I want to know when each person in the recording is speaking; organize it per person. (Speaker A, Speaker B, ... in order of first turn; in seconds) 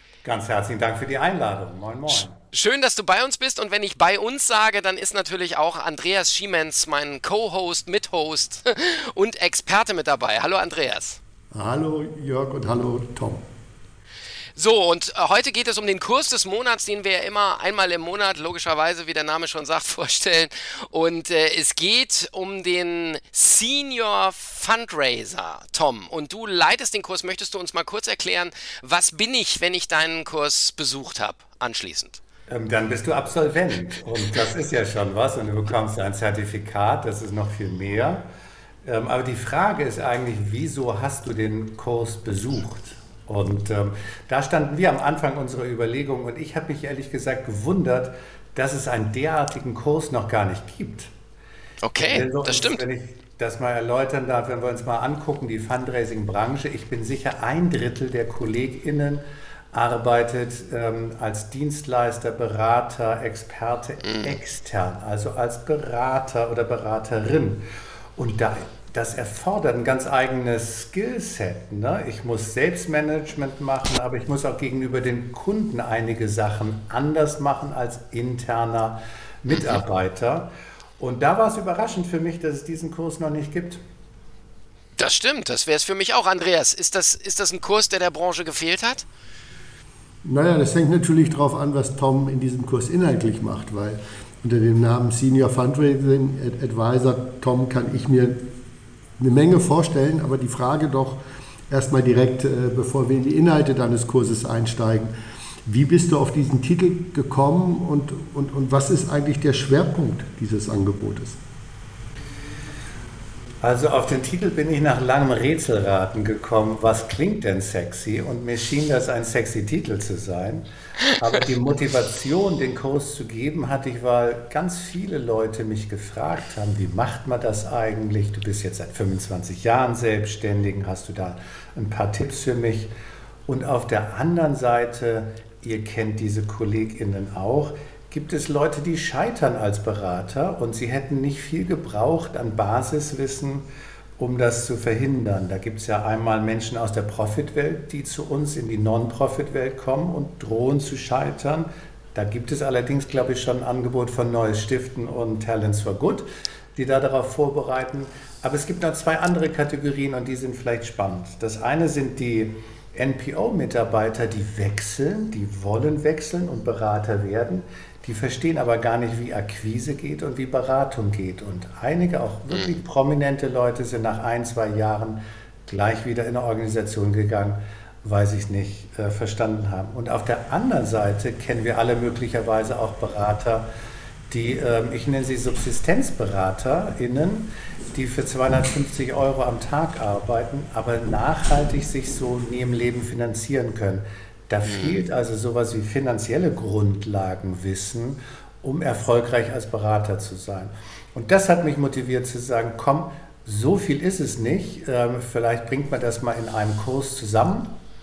Speaker A: 0.2-2.4, 32.5-38.2, 38.9-51.1, 52.1-59.2, 59.7-67.6, 68.2-83.8, 113.6-132.9, 133.5-143.7, 144.2-183.6, 184.3-207.8
Speaker B: 2.5-11.2, 14.6-32.2, 51.8-52.8, 64.0-64.4, 79.5-79.8, 85.0-89.0, 194.6-195.0
Speaker C: 11.5-13.4, 90.2-98.4, 99.2-105.1, 105.7-111.4